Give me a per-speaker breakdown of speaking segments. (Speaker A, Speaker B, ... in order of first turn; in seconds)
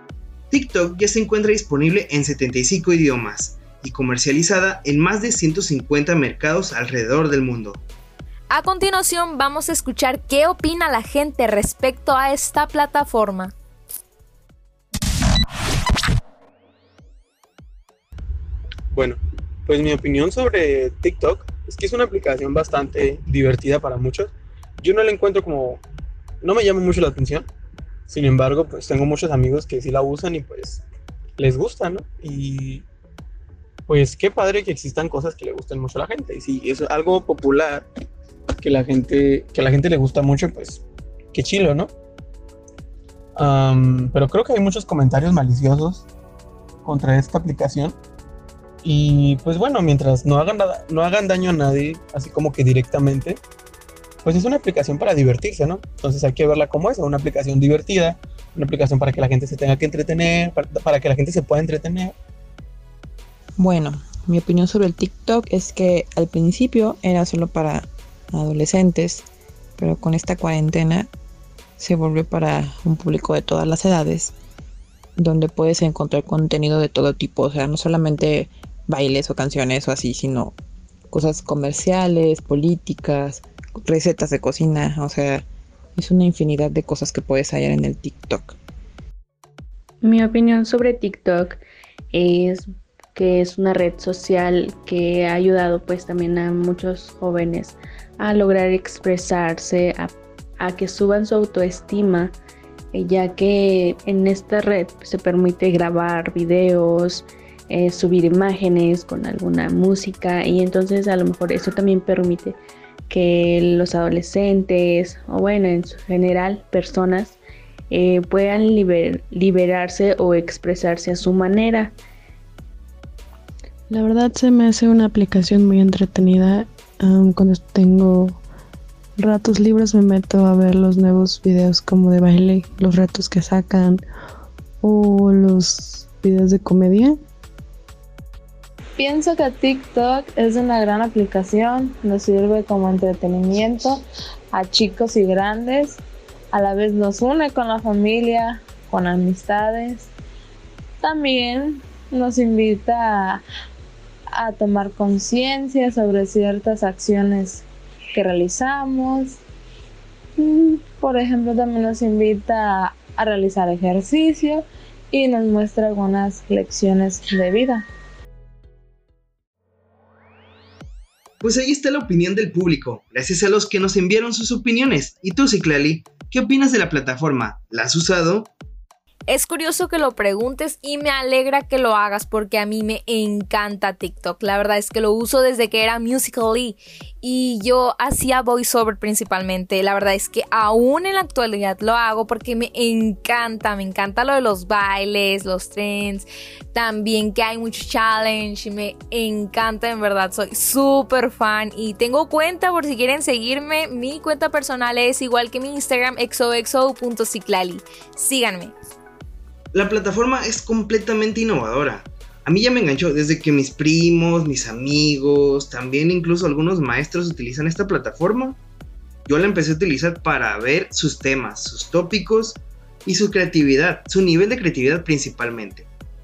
Speaker A: 0.5-7.8, 171.4-178.5, 209.7-218.6, 219.3-225.9
Speaker B: 8.5-13.5, 179.3-208.8
Speaker C: 18.9-25.8, 26.4-27.5, 28.1-30.8, 31.4-32.8, 33.9-37.9, 38.6-40.8, 41.3-41.9, 43.4-46.0, 46.9-48.0, 48.8-53.4, 54.2-62.1
Speaker D: 63.6-69.3, 69.8-71.1, 71.8-74.3, 75.2-80.6, 81.1-88.6
Speaker E: 90.0-91.6, 92.1-102.3, 102.9-117.4, 117.9-122.0
Speaker F: 123.9-128.4, 129.2-134.1, 134.8-137.2
Speaker G: 139.0-146.0, 146.5-150.1, 151.0-153.4, 154.3-159.4, 160.4-167.9